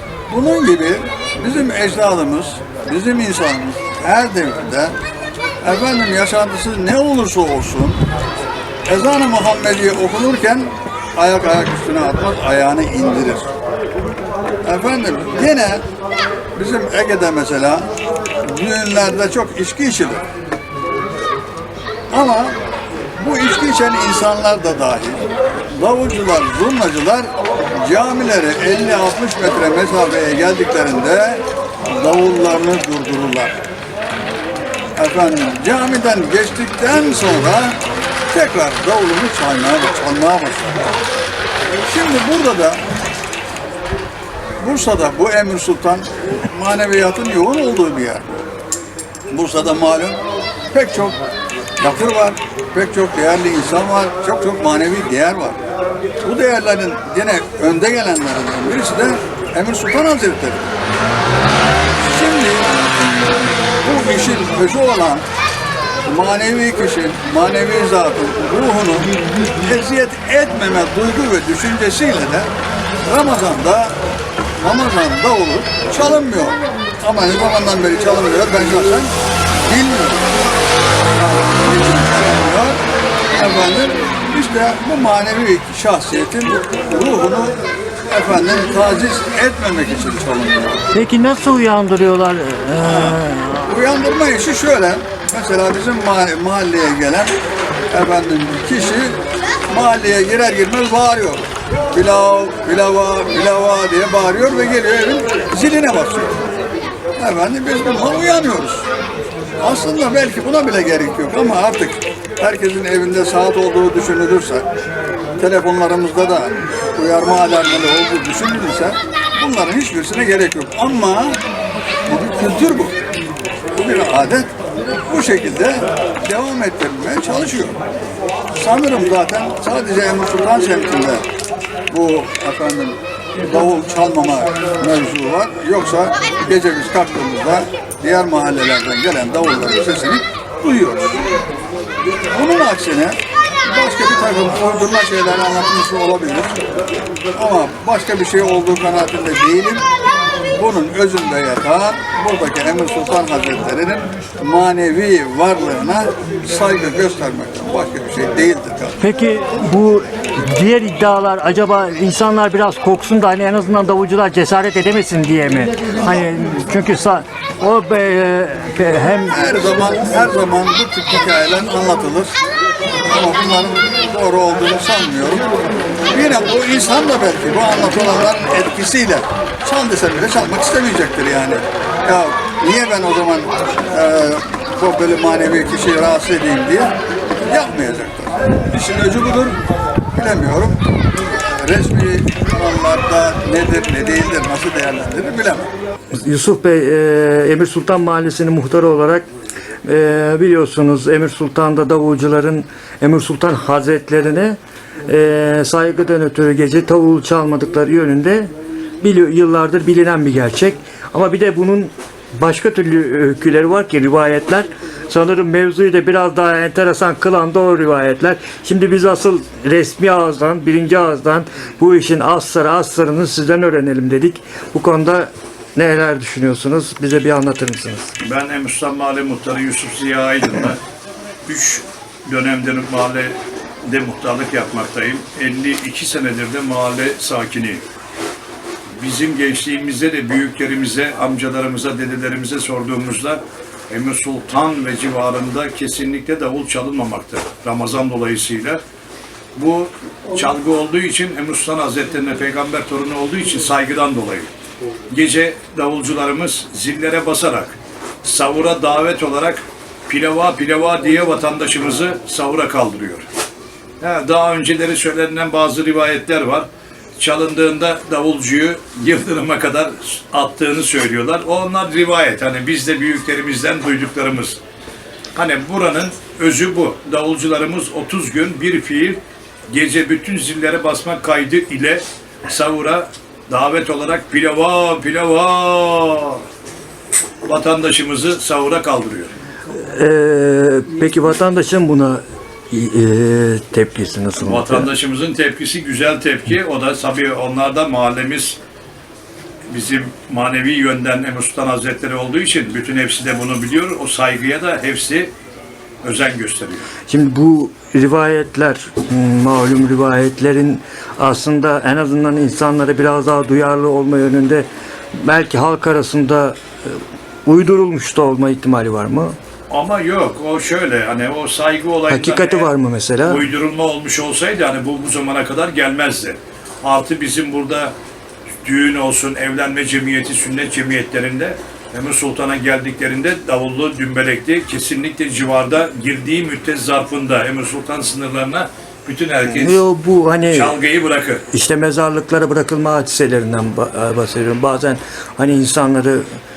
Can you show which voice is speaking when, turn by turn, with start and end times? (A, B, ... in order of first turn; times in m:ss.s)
0:00.3-0:05.0 A
0:05.6-0:08.0 A
0:08.8-0:13.5 A
0:14.6-0:15.8 A
0:16.5-0:17.9 A
0:18.4-0:20.3 A
0:22.1-0:22.6 A
0:23.2-0:33.6 A
0:35.0-0:37.8 A
0:38.3-0:40.9 A
0:41.8-0:42.8 A
0:44.6-0:48.4 A
0:49.3-0:51.2 A
0:51.8-0:55.6 A
0:56.2-1:00.7 A
1:02.0-1:02.9 A
1:03.8-1:05.2 A
1:06.0-1:12.5 A
1:13.0-1:14.0 A
1:14.6-1:19.1 A
1:19.6-1:20.3 A
1:21.1-1:22.8 A
1:23.3-1:27.6 A
1:28.1-1:30.8 A
1:30.9-1:33.7 B
1:32.8-1:37.3 A
1:37.9-1:46.4 A
1:47.2-1:48.9 A
1:49.6-1:54.7 A
1:55.4-2:01.4 A
2:02.1-2:03.0 A
2:03.7-2:04.5 A
2:05.0-2:07.8 A
2:08.5-2:11.2 A
2:11.9-2:21.2 A
2:22.2-2:26.6 A
2:27.3-2:29.8 A
2:30.5-2:39.0 A
2:39.0-2:49.5 B
2:49.3-2:52.4 A
2:53.0-2:55.5 A
2:56.1-3:09.6 A
3:10.1-3:10.8 A
3:11.3-3:15.7 A
3:16.1-3:19.3 B
3:19.8-3:48.1 B
3:48.2-3:50.8 C
3:51.4-3:57.8 C
3:59.0-4:08.8 C
4:09.6-4:14.5 C
4:15.1-4:23.3 C
4:24.0-4:34.6 C
4:35.4-4:46.4 C
4:47.4-4:49.3 C
4:49.7-4:54.9 B
4:54.4-4:58.6 C
4:59.7-5:05.3 C
5:06.0-5:06.9 C
5:07.1-5:19.4 B
5:19.7-5:22.7 C
5:22.1-5:23.4 B
5:23.2-5:27.9 C
5:28.6-5:39.8 C
5:39.4-5:40.8 B
5:40.5-5:41.4 C
5:41.5-5:46.4 B